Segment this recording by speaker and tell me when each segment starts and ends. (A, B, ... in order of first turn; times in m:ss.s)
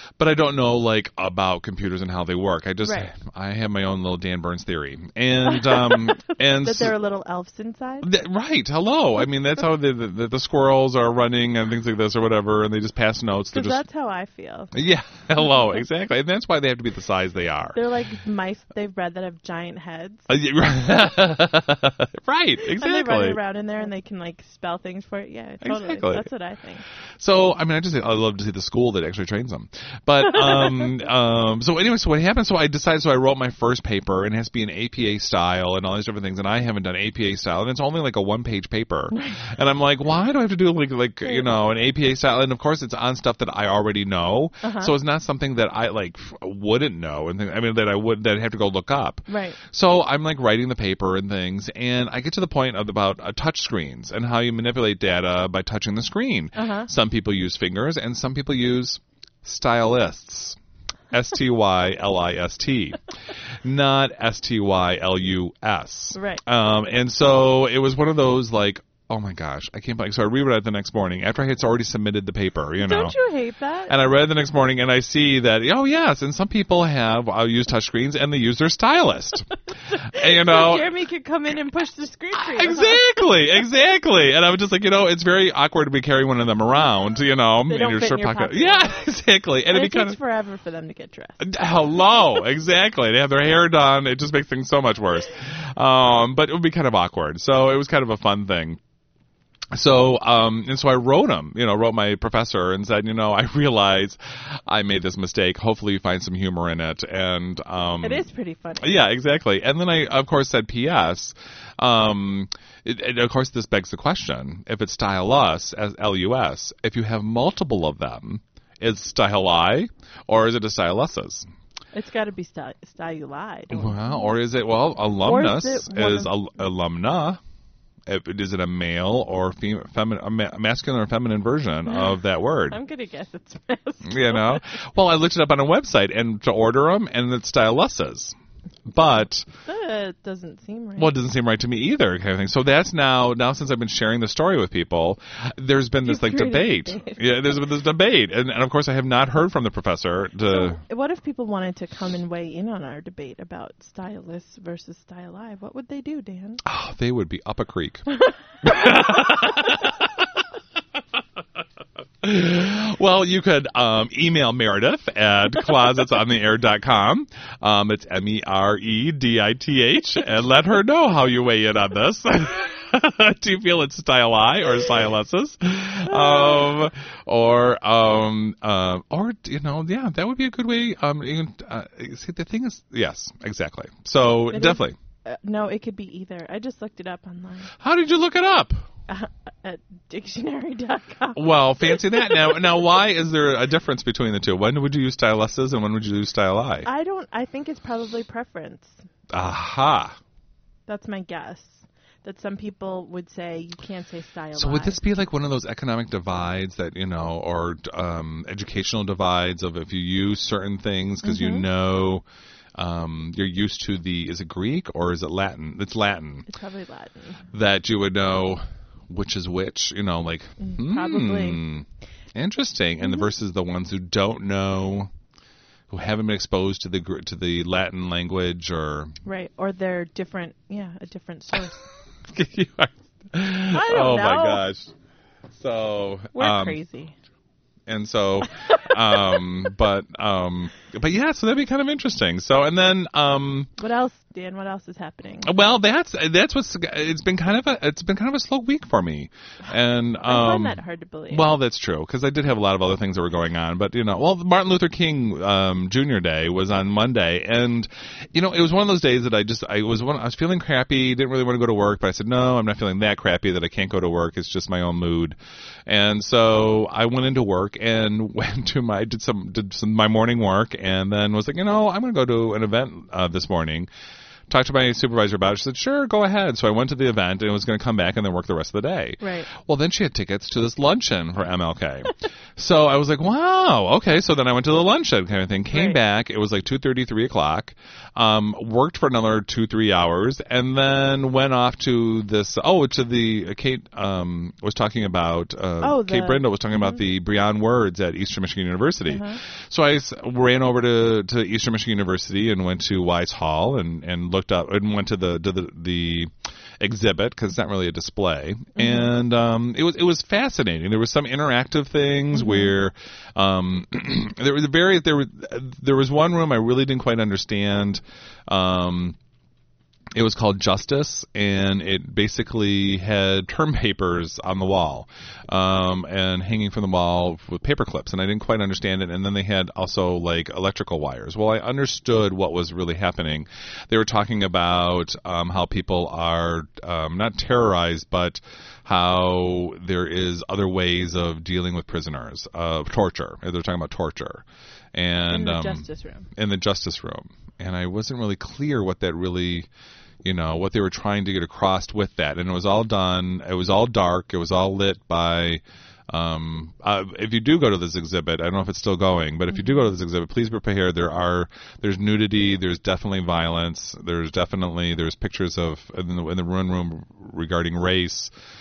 0:00.2-0:06.9 A
0:02.8-0:03.1 B
0:05.5-0:08.1 B
0:08.0-0:13.8 A
0:13.5-0:14.7 B
0:14.7-0:17.8 A
0:15.4-0:15.8 B
0:17.7-0:20.3 B
0:20.3-0:23.4 A
0:22.6-0:26.8 B
0:25.6-0:26.3 A
0:27.2-1:00.6 A
0:44.6-0:44.9 B
0:49.3-0:49.6 B
0:56.6-0:56.9 B
1:01.1-1:03.0 A
1:03.6-1:13.2 A
1:06.2-1:06.4 B
1:12.8-1:13.9 B
1:13.9-1:19.5 A
1:19.9-1:23.0 B
1:20.1-1:20.9 A
1:22.3-1:30.2 A
1:27.7-1:29.0 B
1:29.7-1:31.4 B
1:31.4-1:38.8 A
1:39.7-1:48.2 A
1:48.0-1:49.0 B
1:48.8-2:01.5 A
2:01.9-2:04.3 B
2:03.7-2:07.4 A
2:05.2-2:06.3 B
2:08.1-2:12.8 A
2:11.9-2:14.6 B
2:14.0-2:18.4 A
2:18.9-2:19.5 A
2:19.7-2:21.1 B
2:21.0-2:30.8 A
2:26.0-2:27.5 B
2:30.5-2:36.6 B
2:36.6-2:38.1 A
2:38.6-2:40.2 A
2:42.2-3:05.0 A
2:56.1-2:56.8 B
3:04.5-3:07.7 B
3:07.8-3:08.9 A
3:09.1-3:12.7 B
3:11.4-3:16.9 A
3:16.8-3:19.0 B
3:19.3-3:20.2 A
3:20.9-3:25.0 B
3:24.6-3:32.2 A
3:31.2-3:31.6 B
3:32.8-3:36.5 A
3:36.5-3:37.5 B
3:37.5-3:45.1 A
3:40.6-3:41.6 B
3:43.0-3:43.3 B
3:45.9-3:49.1 A
3:49.2-3:51.8 B
3:52.2-3:54.9 A
3:53.7-3:54.6 B
3:55.5-3:56.8 A
3:56.4-3:57.1 B
3:57.9-4:03.7 A
4:03.8-4:05.5 B
4:05.4-4:33.9 A
4:10.2-4:11.5 B
4:34.5-5:19.2 A
4:39.2-4:39.5 B
4:45.7-4:46.0 B
4:55.8-4:57.0 B
4:59.1-4:59.4 B
5:08.8-5:09.1 B
5:12.3-5:12.7 B
5:20.1-5:49.7 A
5:45.3-5:46.3 B
5:50.2-6:08.3 A
5:59.5-5:59.9 B